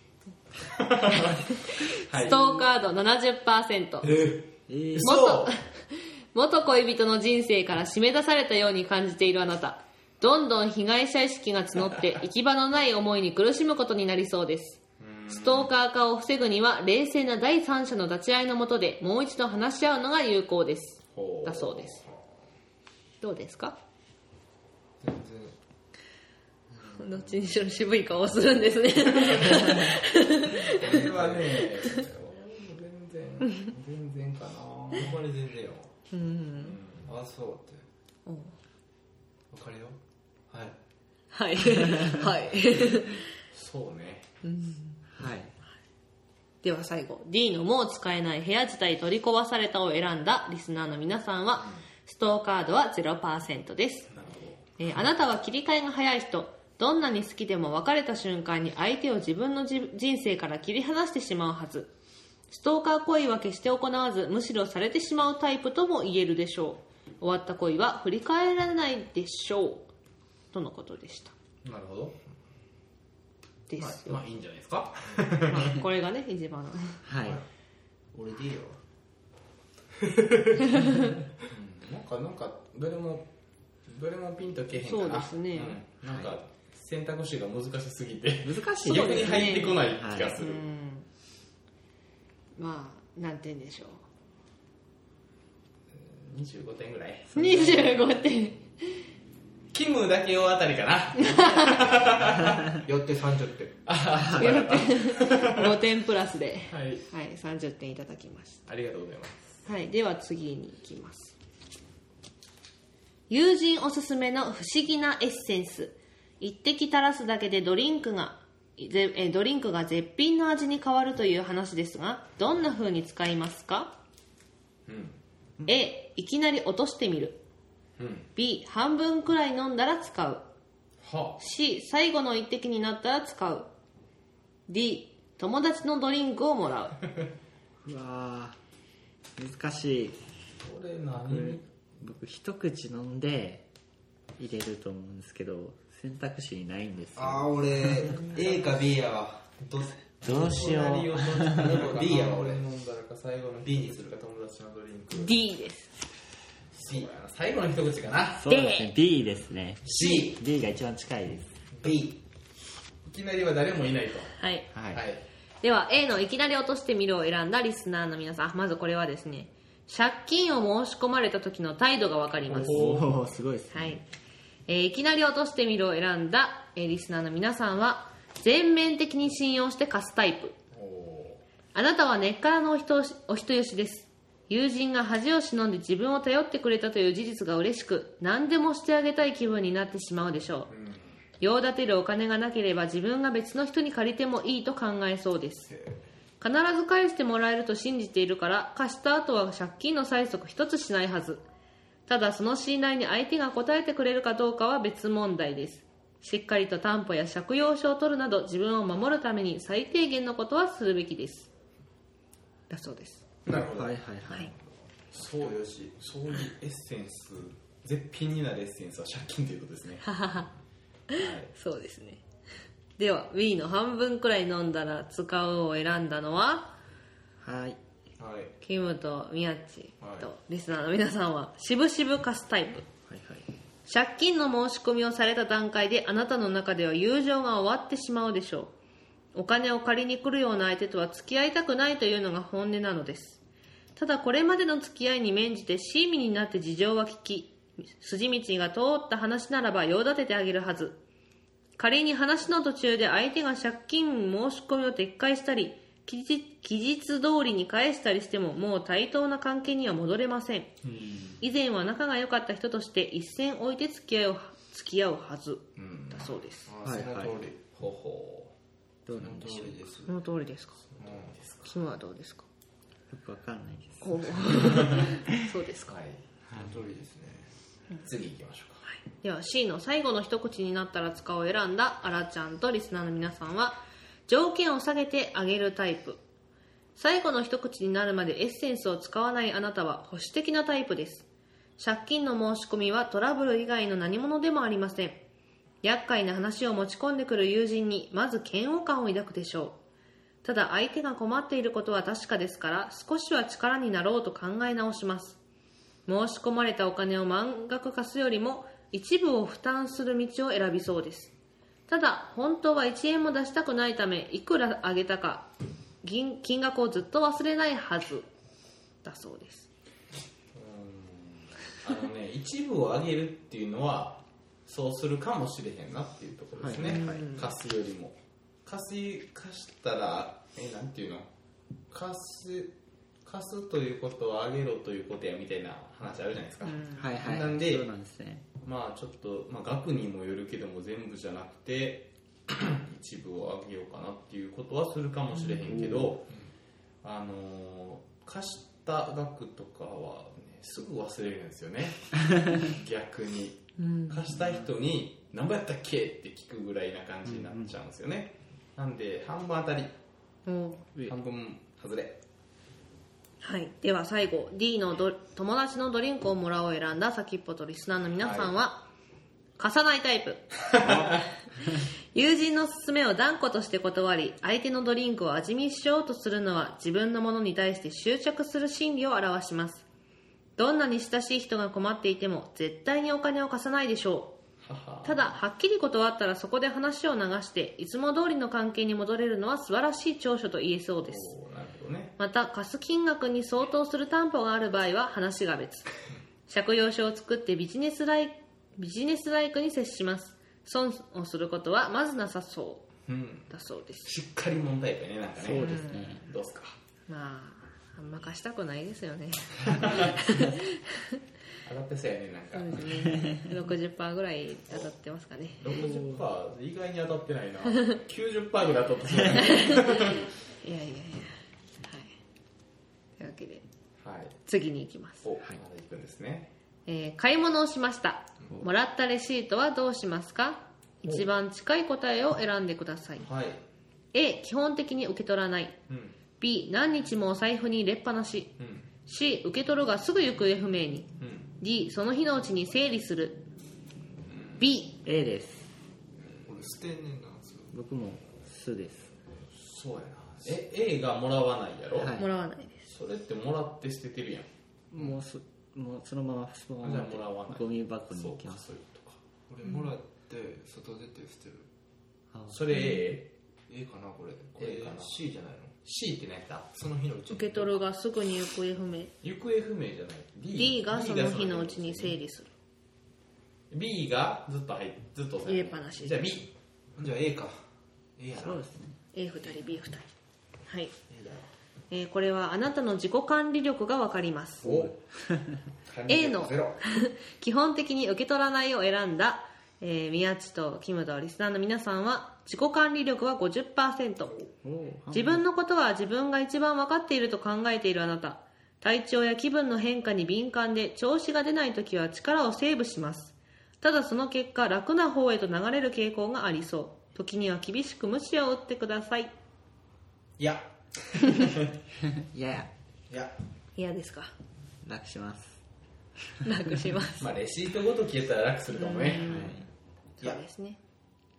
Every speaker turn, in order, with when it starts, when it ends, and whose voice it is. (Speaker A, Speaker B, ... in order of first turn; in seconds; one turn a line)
Speaker A: 0.7-2.6
Speaker B: 1.1-4.1
Speaker C: 4.0-4.5
Speaker D: 4.7-5.1
Speaker A: 4.9-5.5
Speaker B: 5.0-22.0
Speaker A: 15.0-15.7
Speaker A: 21.1-22.0
Speaker B: 23.2-23.8
Speaker C: 25.0-25.6
Speaker B: 27.0-31.1
Speaker A: 29.3-29.7
Speaker A: 30.7-35.1
Speaker C: 30.8-31.6
Speaker B: 31.6-32.0
Speaker C: 34.9-35.9
Speaker B: 36.1-36.8
Speaker A: 36.6-37.1
Speaker C: 37.0-37.8
Speaker B: 38.2-38.5
Speaker C: 39.5-40.0
Speaker C: 40.5-40.8
Speaker B: 41.3-43.2
Speaker A: 43.5-44.3
Speaker B: 44.4-45.0
Speaker D: 45.1-45.5
Speaker B: 46.6-54.1
Speaker A: 54.1-54.6
Speaker B: 54.8-61.9
Speaker B: 62.5-69.9
Speaker B: 70.5-71.3
Speaker A: 71.6-72.2
Speaker B: 73.7-74.2
Speaker A: 73.8-75.8
Speaker B: 75.5-77.0
Speaker D: 77.0-77.4
Speaker C: 78.1-78.8
Speaker C: 80.0-80.8
Speaker B: 80.8-81.1
Speaker A: 81.5-83.3
Speaker A: 83.9-90.6
Speaker B: 84.7-85.8
Speaker D: 86.0-86.3
Speaker D: 88.4-90.4
Speaker B: 88.9-89.8
Speaker B: 90.4-91.1
Speaker B: 92.5-94.0
Speaker A: 95.9-97.3
Speaker D: 97.3-97.9
Speaker B: 97.3-99.0
Speaker A: 99.7-102.7
Speaker B: 101.2-101.8
Speaker C: 102.7-103.8
Speaker A: 103.8-105.8
Speaker D: 104.2-104.6
Speaker B: 104.3-108.6
Speaker A: 106.7-107.0
Speaker A: 108.7-109.4
Speaker B: 109.6-111.3
Speaker B: 113.3-124.0
Speaker A: 124.9-125.2
Speaker B: 125.6-127.4
Speaker A: 128.0-128.3
Speaker B: 128.3-130.5
Speaker A: 131.0-131.4
Speaker B: 131.4-133.7
Speaker B: 134.7-137.0
Speaker D: 137.8-138.6
Speaker D: 139.4-140.3
Speaker A: 140.6-141.7
Speaker D: 141.2-143.7
Speaker D: 144.4-148.4
Speaker C: 147.2-150.8
Speaker D: 150.2-151.9
Speaker A: 150.3-155.3
Speaker C: 151.5-152.6
Speaker C: 153.6-154.1
Speaker B: 155.1-155.9
Speaker A: 156.7-158.4
Speaker D: 158.3-161.6
Speaker B: 158.5-158.9
Speaker A: 159.8-160.3
Speaker A: 163.1-164.3
Speaker B: 164.4-164.7
Speaker D: 164.7-165.0
Speaker A: 164.9-165.2
Speaker B: 165.6-172.8
Speaker A: 172.5-173.3
Speaker D: 172.5-174.0
Speaker B: 173.7-174.0
Speaker B: 174.7-180.5
Speaker A: 180.7-181.4
Speaker B: 181.7-190.7
Speaker A: 190.7-191.1
Speaker B: 191.4-195.7
Speaker B: 196.4-201.4
Speaker B: 202.1-211.5
Speaker B: 212.7-213.2
Speaker A: 213.4-213.9
Speaker D: 213.5-214.5
Speaker A: 215.1-220.1
Speaker C: 215.2-215.9
Speaker B: 220.0-220.5
Speaker B: 221.1-222.2
Speaker A: 221.1-221.5
Speaker B: 223.0-226.7
Speaker D: 227.4-227.8
Speaker C: 228.2-228.5
Speaker B: 228.6-232.8
Speaker C: 230.0-230.3
Speaker D: 233.1-233.4
Speaker B: 233.8-238.7
Speaker B: 239.3-243.4
Speaker B: 243.9-251.0
Speaker B: 251.8-260.7
Speaker A: 260.8-261.4
Speaker B: 261.4-266.7
Speaker A: 265.8-266.4
Speaker C: 266.6-267.6
Speaker D: 266.8-267.4
Speaker A: 267.6-268.5
Speaker D: 269.1-269.8
Speaker C: 269.1-270.2
Speaker B: 270.1-270.8
Speaker A: 270.9-271.8
Speaker C: 271.0-271.4
Speaker B: 271.6-272.4
Speaker D: 273.1-275.0
Speaker B: 274.0-275.9
Speaker A: 274.6-275.1
Speaker A: 275.9-276.2
Speaker C: 276.5-277.5
Speaker A: 278.0-278.8
Speaker B: 278.9-286.2
Speaker B: 286.9-291.3
Speaker B: 291.8-295.2
Speaker B: 295.8-299.8
Speaker B: 300.4-305.4
Speaker B: 306.1-311.3
Speaker B: 311.9-315.5
Speaker B: 316.0-318.3
Speaker B: 319.0-319.7
Speaker A: 320.5-331.3
Speaker D: 326.6-327.2
Speaker B: 326.8-327.5
Speaker A: 331.9-337.9
Speaker B: 336.6-337.1
Speaker D: 337.0-338.4
Speaker A: 338.6-346.3
Speaker D: 345.7-346.1
Speaker A: 347.0-359.9
Speaker B: 353.8-354.3
Speaker D: 357.3-357.6
Speaker B: 360.4-360.9
Speaker A: 361.0-362.2
Speaker B: 363.4-368.9
Speaker A: 368.2-368.5
Speaker B: 369.6-370.5
Speaker A: 370.7-371.2
Speaker B: 372.1-379.8
Speaker B: 380.6-384.4
Speaker A: 384.6-385.4
Speaker B: 385.0-391.3
Speaker A: 391.0-392.1
Speaker B: 392.2-395.9
Speaker B: 396.5-402.9
Speaker A: 403.1-403.5
Speaker B: 403.5-404.1
Speaker A: 404.0-406.8
Speaker D: 405.4-406.2
Speaker B: 405.6-406.2
Speaker B: 407.1-411.2
Speaker A: 409.7-410.2
Speaker A: 411.6-413.1
Speaker B: 412.5-415.8
Speaker A: 415.6-420.2
Speaker D: 415.7-416.2
Speaker B: 419.4-422.1
Speaker B: 423.2-423.6
Speaker A: 424.0-424.3
Speaker B: 424.4-425.2
Speaker A: 425.2-426.5
Speaker B: 426.9-433.3
Speaker A: 433.2-433.6
Speaker B: 434.1-435.8
Speaker A: 435.9-436.2
Speaker B: 436.4-443.4
Speaker A: 438.6-438.9
Speaker A: 441.2-441.5
Speaker A: 444.3-444.6
Speaker B: 444.6-445.0
Speaker D: 445.0-445.7
Speaker C: 446.4-447.7
Speaker D: 447.7-449.1
Speaker A: 449.5-452.2
Speaker D: 451.9-452.3
Speaker B: 452.1-452.9
Speaker A: 452.9-454.5
Speaker D: 454.9-458.6
Speaker A: 456.8-459.2
Speaker C: 459.5-461.7
Speaker A: 462.5-463.3
Speaker B: 462.7-463.0
Speaker C: 463.7-465.7
Speaker A: 464.6-465.2
Speaker A: 465.8-466.7
Speaker C: 466.7-467.8
Speaker B: 467.3-469.1
Speaker A: 469.2-472.2
Speaker B: 470.5-472.5
Speaker A: 473.7-476.5
Speaker B: 475.4-476.3
Speaker C: 476.9-477.6
Speaker C: 478.2-478.6
Speaker D: 478.3-479.0
Speaker B: 479.1-480.1
Speaker B: 480.7-480.9
Speaker C: 481.1-481.5
Speaker B: 481.9-484.6
Speaker A: 484.6-485.0
Speaker D: 484.6-485.6
Speaker A: 485.9-486.8
Speaker B: 486.1-494.4
Speaker D: 494.6-495.4
Speaker B: 495.1-509.3
Speaker A: 510.4-511.6
Speaker D: 512.2-512.7
Speaker B: 513.8-514.3
Speaker D: 514.8-515.6
Speaker B: 516.4-517.3
Speaker A: 517.2-519.6
Speaker B: 518.7-519.6
Speaker D: 519.2-519.6
Speaker B: 520.2-520.8